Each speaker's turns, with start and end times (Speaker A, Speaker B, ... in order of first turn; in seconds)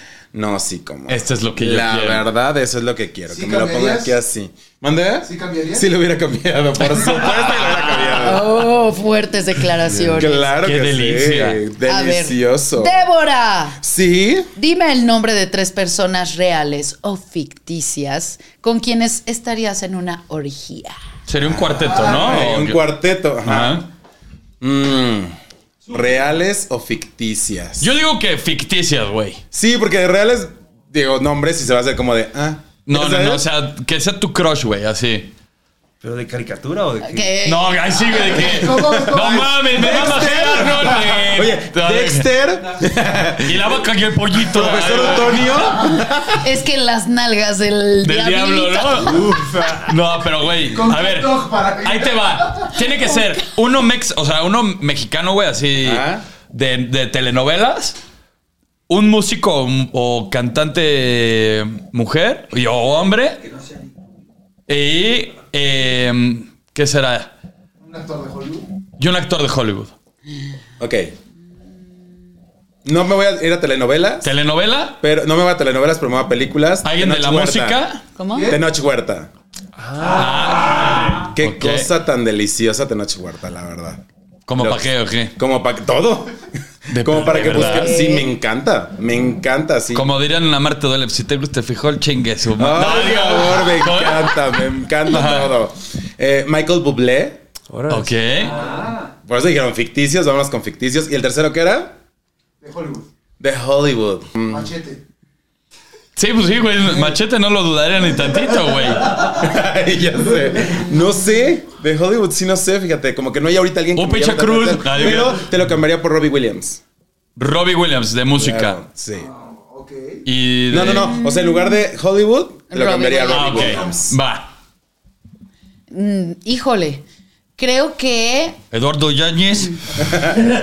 Speaker A: 0.3-8.5, 10.1-13.0, 13.8-14.5, 21.4-23.9, 24.6-25.4, 25.9-27.9, 29.5-33.4, 39.1-43.8, 44.4-46.5, 55.8-56.2, 70.8-71.1, 72.8-74.3, 75.0-77.8, 78.5-79.3, 81.3-84.0, 84.6-90.1, 92.6-97.4, 99.3-102.0, 103.4-104.8, 109.1-116.8, 118.3-119.3, 120.7-124.2, 130.0-130.3
Speaker B: 1.1-2.3, 6.9-8.3, 10.6-11.6, 21.3-22.8, 23.4-23.9, 27.8-29.4, 32.9-35.3, 37.5-42.3, 43.4-45.9, 48.0-58.0, 58.9-63.5, 64.7-67.3, 69.0-69.9, 74.2-75.0, 76.8-78.0, 80.0-81.9, 84.5-85.3, 86.9-87.9, 89.9-95.5, 97.9-98.6, 106.2-109.1, 114.0-115.4, 117.4-118.8, 120.2-121.1, 123.3-124.5, 128.7-129.8
Speaker C: 3.3-4.2, 5.3-5.9, 6.8-7.4, 38.2-40.0, 50.7-52.7, 67.8-68.7, 78.3-78.6, 98.6-98.9, 102.6-103.1, 104.5-105.0, 119.3-120.2
Speaker D: 8.2-10.5, 11.9-13.8, 14.6-21.0, 37.0-37.9, 46.4-49.3, 78.2-78.6, 87.4-88.3, 120.9-121.8, 122.7-123.9, 125.9-127.0, 127.6-128.6
Speaker E: 36.0-37.3, 49.1-49.9, 79.8-81.1, 97.7-98.2